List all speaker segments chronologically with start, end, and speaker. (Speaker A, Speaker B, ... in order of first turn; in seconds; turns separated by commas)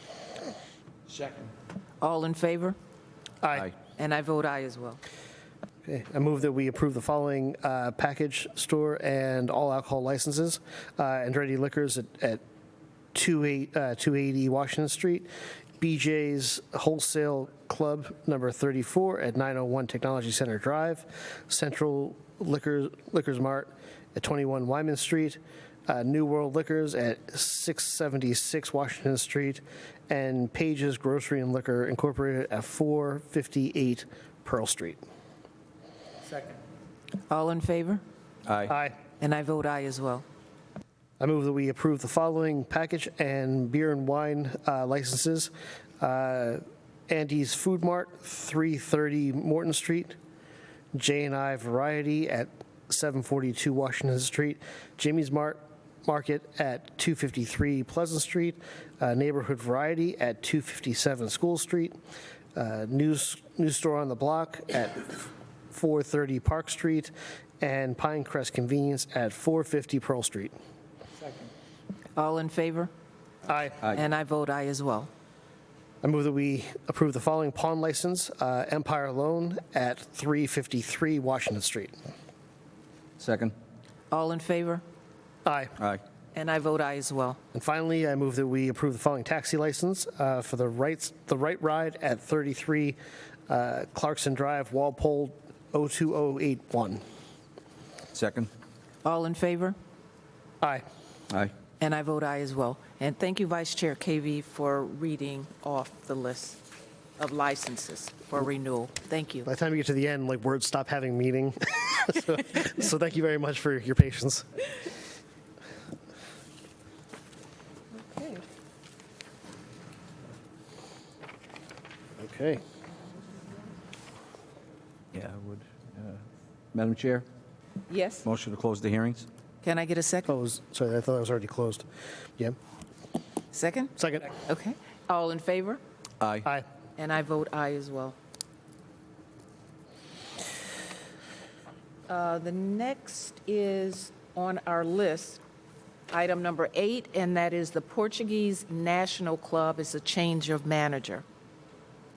Speaker A: 2.0-2.8, Speaker B: 3.4-3.7, Speaker A: 4.0-5.0, Speaker B: 5.8-12.4, Speaker B: 13.1-15.3, Speaker B: 15.8-35.0, Speaker A: 37.3-38.0, Speaker C: 38.5-38.7, Speaker B: 38.7-39.0, Speaker A: 39.2-40.2, Speaker B: 41.2-50.1, Speaker B: 50.9-62.0, Speaker B: 62.6-65.2, Speaker B: 65.7-70.5, Speaker A: 72.2-72.9, Speaker B: 73.5-73.8, Speaker A: 73.8-75.1, Speaker B: 76.0-82.0, Speaker C: 83.2-83.5, Speaker A: 84.1-84.8, Speaker B: 85.5-85.8, Speaker A: 86.3-87.4, Speaker B: 87.5-93.0, Speaker B: 93.5-97.0, Speaker C: 98.1-98.5, Speaker A: 99.0-99.8, Speaker A: 101.8-106.6, Speaker A: 107.2-109.5, Speaker B: 109.5-114.5, Speaker A: 118.0-118.4, Speaker B: 122.2-122.6, Speaker C: 125.1-126.2, Speaker C: 126.7-127.3, Speaker A: 127.9-128.2, Speaker C: 128.2-129.3, Speaker A: 129.6-130.3, Speaker B: 130.3-131.9, Speaker A: 133.5-135.8, Speaker B: 134.0-134.3, Speaker C: 136.2-136.5, Speaker A: 137.0-138.2, Speaker A: 142.1-145.4, Speaker A: 146.1-151.2